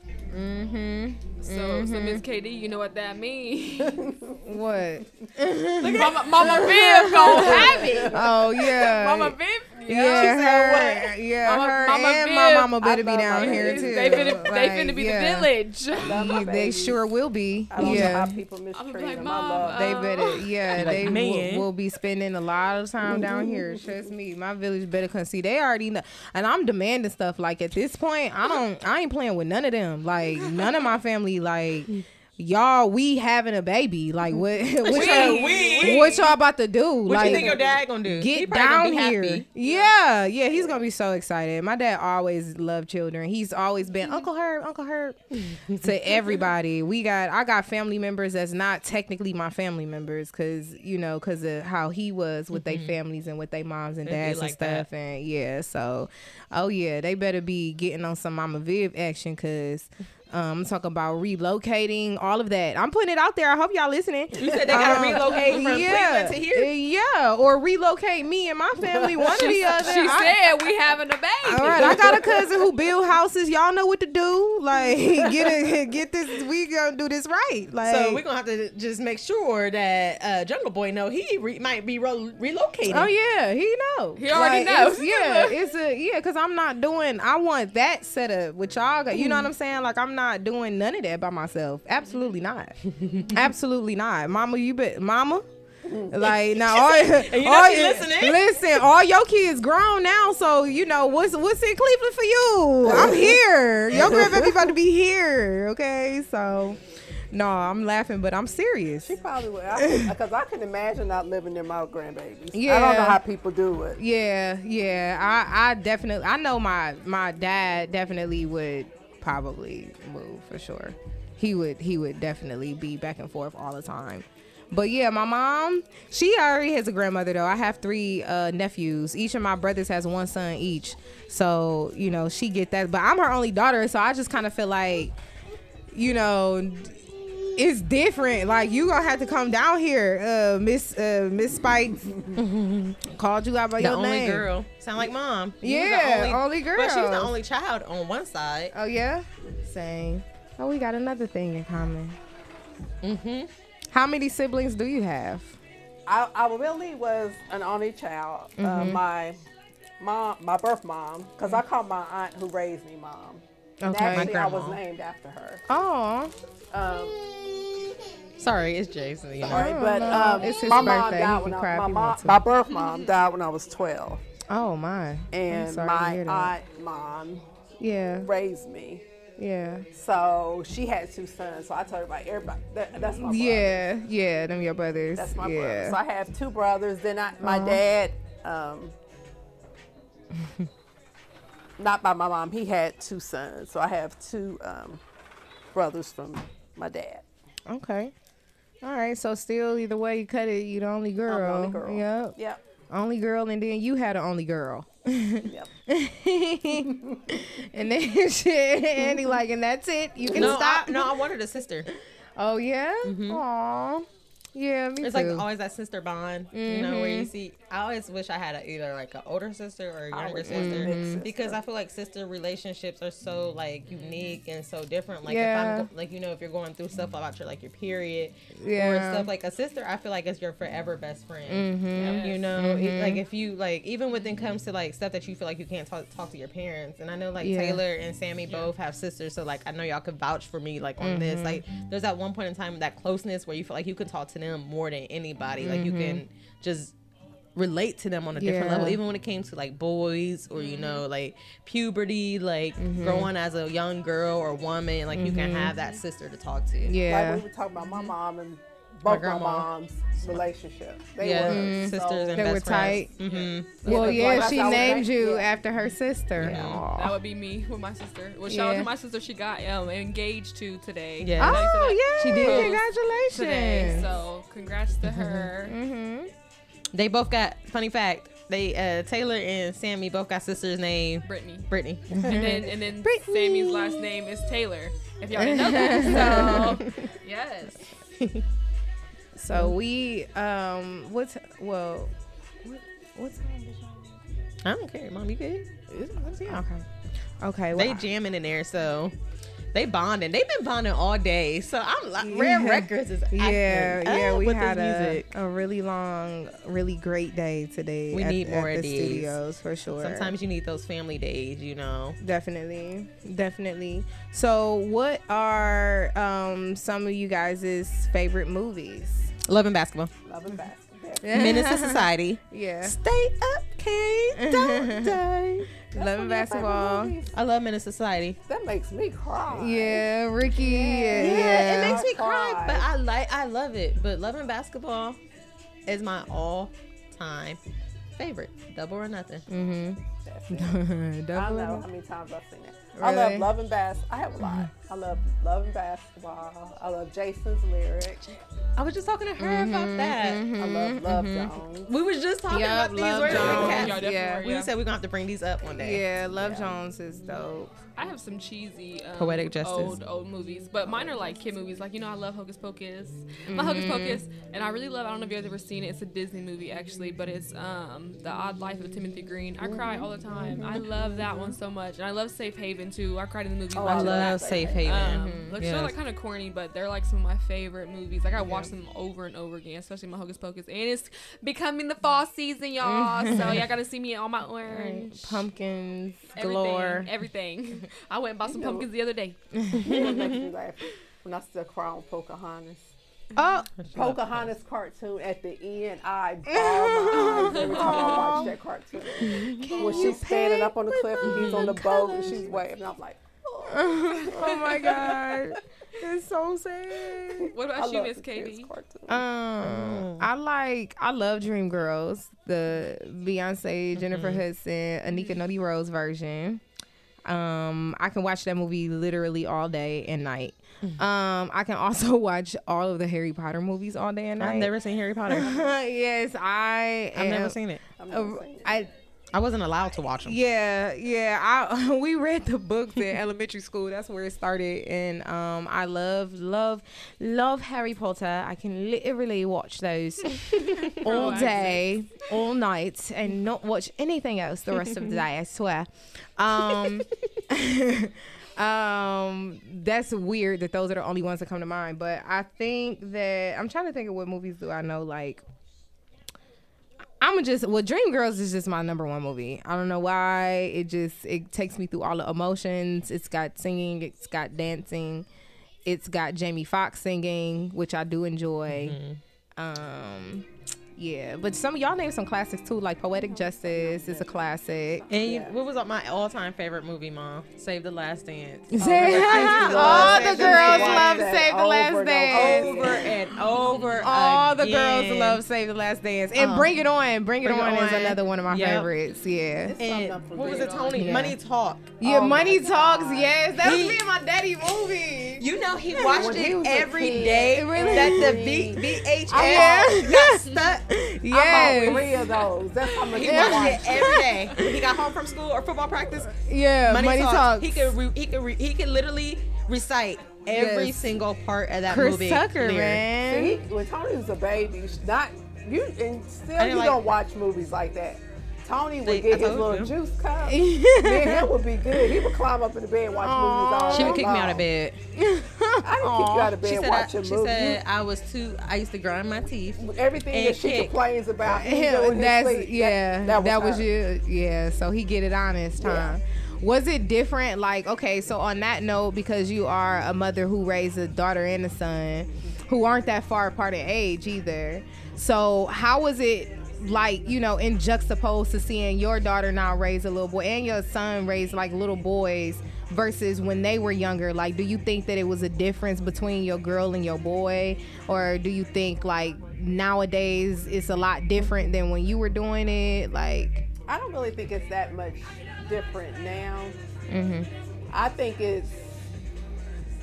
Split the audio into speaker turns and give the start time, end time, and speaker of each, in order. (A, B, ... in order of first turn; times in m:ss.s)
0:00.3-0:02.2 A
0:01.4-0:04.2 B
0:03.8-0:04.4 C
0:04.4-0:18.4 A
0:05.8-0:16.4 B
0:07.2-0:08.2 C
0:10.1-0:10.6 D
0:12.8-0:14.5 C
0:16.0-0:17.0 C
0:17.7-0:20.0 C
0:17.8-0:18.1 B
0:18.8-0:21.2 B
0:19.7-1:10.6 A
0:20.8-0:21.7 D
0:23.0-0:23.8 C
0:30.4-0:30.8 B
0:34.8-0:36.3 D
0:34.9-0:36.0 B
0:35.0-0:36.0 C
0:37.1-0:39.4 D
0:37.2-0:37.6 C
0:39.6-0:39.9 B
0:45.4-0:46.4 D
0:52.5-0:53.0 D
0:54.0-0:54.8 D
1:04.4-1:06.7 D
1:04.7-1:05.1 C
1:08.8-1:09.7 C
1:09.3-1:12.3 B
1:09.9-1:10.2 D
1:11.4-1:18.2 A
1:12.0-1:12.5 C
1:17.8-1:23.1 D
1:22.9-1:32.8 A
1:24.2-1:25.6 B
1:33.0-1:33.4 D
1:33.3-1:35.4 A
1:35.8-1:36.2 C
1:36.1-1:46.8 A
1:36.2-1:38.7 D
1:42.8-1:44.7 C
1:47.3-1:49.2 A
1:49.0-1:54.0 C
1:49.8-1:50.1 A
1:52.5-1:53.2 A
1:54.0-2:15.2 A
2:15.9-2:22.4 A
2:22.0-2:22.4 C
2:22.4-2:23.0 D
2:23.0-2:24.5 A
2:23.8-2:28.7 D
2:25.6-2:27.4 A
2:28.7-2:32.2 A
2:33.0-2:33.5 D
2:33.9-2:35.6 A
2:36.1-2:39.4 C
2:38.6-2:39.0 A
2:40.0-2:45.6 C
2:43.8-2:44.5 A
2:44.1-2:44.8 D
2:45.7-2:46.3 A
2:46.7-2:47.2 C
2:48.4-2:49.8 D
2:49.4-2:52.4 A
2:49.5-2:54.2 C
2:54.5-2:56.5 A
2:55.3-2:57.5 C
2:57.8-2:58.3 A
2:58.2-2:59.0 C
2:59.4-2:59.9 A
2:59.9-3:03.8 C
3:03.2-3:06.0 A
3:05.2-3:09.0 C
3:07.4-3:07.8 A
3:11.8-3:15.0 C
3:15.7-3:17.2 C
3:17.7-3:18.1 A
3:18.8-3:22.4 A
3:21.3-3:22.6 C
3:22.9-3:31.2 A
3:25.4-3:25.7 C
3:26.9-3:27.2 C
3:30.2-3:30.6 C
3:30.3-3:31.9 D
3:32.4-3:35.4 A
3:33.0-3:33.4 D
3:35.0-4:06.9 D
3:36.5-3:37.3 A
3:40.1-3:41.2 A
3:40.3-3:41.6 C
3:43.9-3:44.4 B
3:45.3-3:45.9 A
3:48.6-3:49.3 A
3:51.5-3:53.2 A
3:51.9-3:52.5 B
3:57.4-3:57.8 A
3:58.5-3:58.7 B
4:01.0-4:01.6 A
4:05.6-4:06.2 A
4:07.6-4:17.0 D
4:08.4-4:09.0 A
4:10.6-4:11.0 B
4:12.8-4:13.3 A
4:15.1-4:15.8 A
4:16.8-4:17.4 A
4:17.0-4:22.5 C
4:19.0-4:19.7 D
4:21.2-4:25.0 D
4:21.4-4:23.1 A
4:23.2-4:24.2 B
4:23.8-4:27.2 A
4:23.8-4:25.5 C
4:26.4-4:26.8 D
4:26.9-4:35.8 B
4:28.5-4:28.9 A
4:31.2-4:32.8 D
4:31.4-4:34.1 A
4:35.1-4:36.3 A
4:36.9-4:42.2 D
4:41.2-4:47.8 B
4:42.1-4:44.1 A
4:45.4-4:47.0 A
4:46.3-4:46.7 D
4:48.2-4:48.4 D
4:49.4-4:54.2 A
4:54.6-4:56.7 D
4:56.1-4:56.9 A
4:57.4-4:58.1 A
4:57.8-4:59.2 D
4:59.7-5:05.3 D
5:02.2-5:10.3 A
5:08.1-5:09.4 D
5:10.0-5:12.2 D
5:12.2-5:19.3 A
5:19.5-5:20.1 D
5:20.3-5:21.3 C
5:21.2-5:23.0 A
5:21.3-5:25.7 D
5:24.4-5:25.2 A
5:25.9-5:27.2 A
5:25.9-5:27.3 C
5:27.3-5:28.4 D
5:28.5-5:32.9 C
5:29.5-5:32.1 A
5:31.2-5:35.2 D
5:35.9-5:37.6 D
5:38.2-5:39.5 D
5:39.5-5:41.9 A
5:40.2-5:40.8 C
5:41.3-5:48.4 C
5:43.0-5:43.5 A
5:44.4-5:44.7 A
5:48.8-5:50.4 D
5:49.4-5:51.5 A
5:50.6-5:51.9 C
5:51.9-5:56.0 D
5:52.5-5:54.5 A
5:53.2-5:54.7 B
5:55.8-5:57.8 A
5:56.4-5:56.7 C
5:58.0-6:25.4 B
5:59.2-6:00.0 D
6:03.5-6:04.2 A
6:09.6-6:10.8 C
6:13.7-6:14.9 C
6:13.8-6:15.9 D
6:15.1-6:15.6 A
6:22.8-6:23.7 A
6:23.4-6:23.6 D
6:24.7-6:27.1 A
6:26.4-6:29.4 B
6:28.5-6:28.9 C
6:29.6-6:29.9 A
6:29.8-6:30.4 D
6:29.8-6:32.9 C
6:33.4-6:33.7 A
6:33.7-6:34.5 D
6:33.9-6:45.2 C
6:36.5-6:38.5 A
6:37.1-6:38.4 B
6:39.2-6:42.6 A
6:41.2-6:41.8 D
6:43.7-6:47.5 A
6:44.4-6:45.5 B
6:47.4-6:49.2 C
6:47.5-6:48.7 B
6:49.1-6:56.6 A
6:49.6-6:50.3 D
6:54.0-6:54.4 D
6:57.3-7:04.7 A
7:04.4-7:05.7 D
7:05.3-7:07.6 A
7:07.2-7:07.8 D
7:08.0-7:08.9 C
7:08.1-7:08.9 A
7:09.3-7:10.4 D
7:10.2-7:35.4 A
7:20.3-7:21.8 B
7:21.0-7:21.4 D
7:24.8-7:25.2 D
7:26.7-7:27.1 D
7:37.2-7:45.3 A
7:45.8-7:49.0 A
7:48.7-7:49.2 D
7:49.6-7:55.1 A
7:53.4-7:54.4 C
7:55.0-7:55.5 C
7:55.1-8:01.2 D
7:58.7-8:03.1 A
7:58.8-8:03.2 C
8:02.3-8:05.4 D
8:03.5-8:04.1 B
8:04.0-8:09.8 A
8:06.4-8:06.7 D
8:07.4-8:08.9 D
8:09.6-8:11.2 C
8:09.8-8:12.5 D
8:10.4-8:11.1 B
8:10.9-8:11.4 A
8:12.0-8:16.5 A
8:12.3-8:13.4 B
8:13.6-8:14.0 D
8:15.4-8:22.2 D
8:16.1-8:20.0 C
8:17.5-8:18.4 A
8:19.3-8:22.1 A
8:20.3-8:20.5 B
8:21.3-8:24.1 C
8:23.1-8:26.3 D
8:23.1-8:25.0 A
8:26.2-8:28.0 A
8:26.9-8:33.0 D
8:30.5-8:31.2 A
8:31.9-8:33.6 A
8:33.3-8:44.7 C
8:36.6-8:37.0 D
8:39.0-8:39.9 D
8:40.5-8:42.2 A
8:43.2-8:44.3 A
8:43.9-8:45.0 D
8:45.2-8:46.6 A
8:45.8-8:47.8 C
8:46.5-8:51.0 D
8:49.8-8:53.9 C
8:51.4-9:23.6 A
8:55.8-8:56.2 C
9:23.9-9:26.8 C
9:27.1-9:27.5 A
9:27.9-9:29.0 C